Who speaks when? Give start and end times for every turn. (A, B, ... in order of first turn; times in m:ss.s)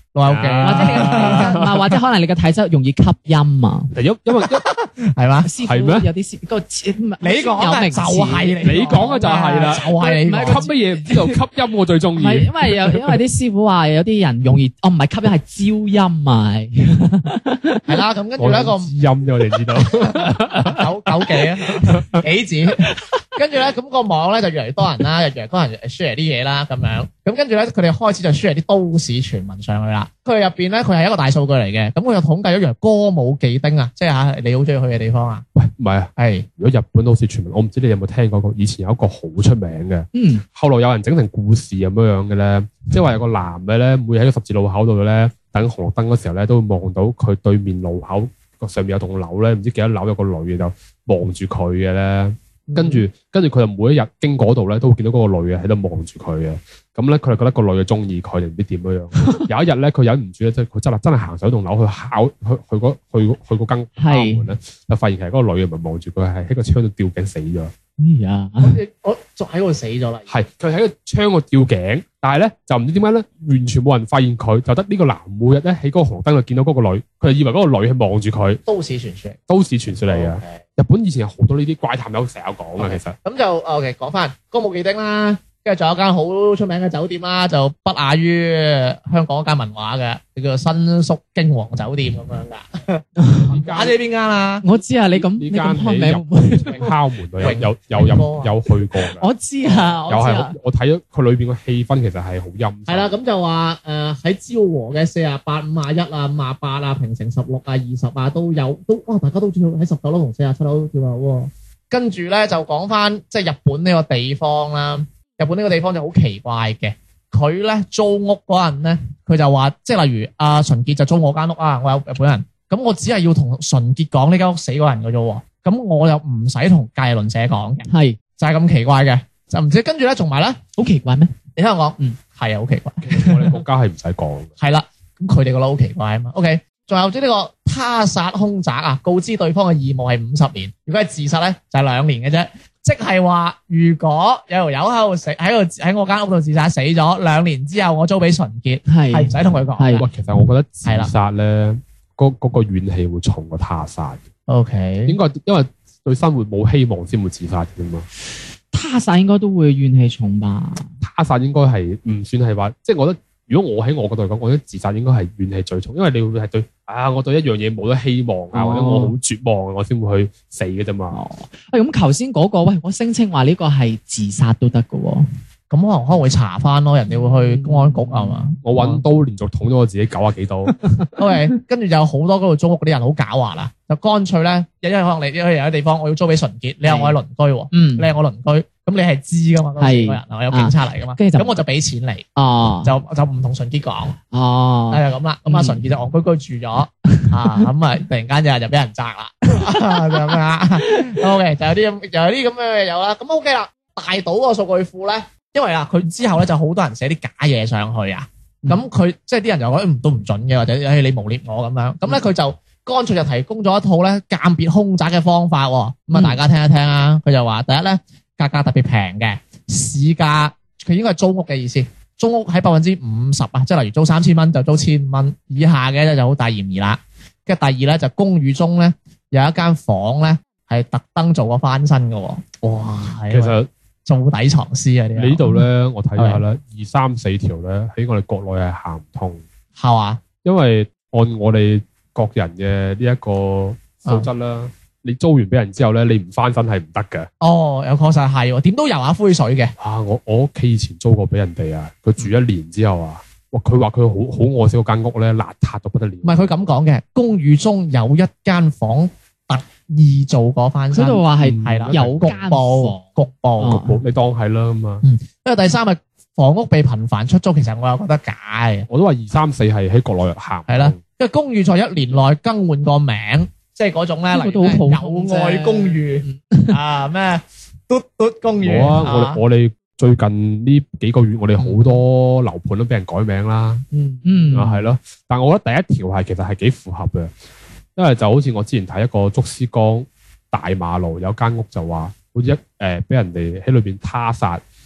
0:00.1-0:01.6 A
0:00.3-0:01.8 B
0:00.6-0:03.9 C
0:04.0-0:04.6 B
0:04.4-0:05.5 A
0:05.4-0:11.4 C
0:05.6-0:06.1 B
0:07.2-0:10.7 A
0:08.6-0:13.2 B
0:12.2-0:18.0 C
0:17.9-0:18.9 A
0:18.4-0:20.9 B
0:20.0-0:35.4 A
0:21.8-0:22.2 B
0:35.6-1:07.7 B
0:36.2-0:36.5 A
0:40.1-0:40.4 C
0:52.7-0:53.0 A
0:59.2-0:59.5 C
1:04.0-1:04.5 C
1:08.0-1:08.8 C
1:08.6-1:10.3 A
1:10.3-1:18.6 B
1:18.7-1:19.4 A
1:19.5-1:23.2 B
1:20.1-1:20.6 A
1:22.8-1:34.6 A
1:33.2-1:33.6 C
1:33.5-1:34.0 B
1:34.6-1:36.9 C
1:35.2-1:39.2 B
1:37.4-1:38.5 A
1:39.2-1:40.6 C
1:40.1-1:43.1 B
1:42.9-2:10.6 A
2:07.9-2:08.2 C
2:10.8-2:11.4 C
2:11.6-2:13.6 A
2:13.0-2:14.5 B
2:14.6-2:30.1 A
2:28.9-2:30.1 C
2:30.0-2:34.2 B
2:34.5-2:35.2 A
2:35.1-2:38.1 B
2:38.7-2:40.9 C
2:41.0-2:51.2 B
2:48.5-2:49.2 C
2:51.1-2:55.3 C
2:55.7-2:58.6 A
2:57.1-2:58.9 C
2:58.6-3:00.8 B
3:00.8-3:01.2 C
3:01.2-3:12.3 A
3:06.8-3:07.2 C
3:07.7-3:08.1 C
3:09.8-3:11.6 C
3:12.4-3:12.9 C
3:12.8-3:14.2 A
3:14.3-3:15.8 C
3:14.9-3:53.6 A
3:17.1-3:17.6 C
3:36.1-3:36.4 C
3:53.3-3:53.7 B
3:54.1-3:55.6 A
3:55.2-3:59.4 B
3:59.8-4:00.2 A
4:00.4-4:07.3 B
4:07.4-4:09.7 A
4:09.8-4:16.5 B
4:16.2-4:23.8 A
4:20.9-4:23.1 C
4:21.4-4:22.1 B
4:23.6-4:24.0 C
4:23.7-4:25.0 B
4:25.0-4:28.9 A
4:28.9-4:31.0 B
4:30.7-4:39.4 A
4:34.3-4:36.8 C
4:38.6-4:43.8 B
4:44.0-4:44.9 C
4:44.5-4:47.3 B
4:48.0-4:54.6 B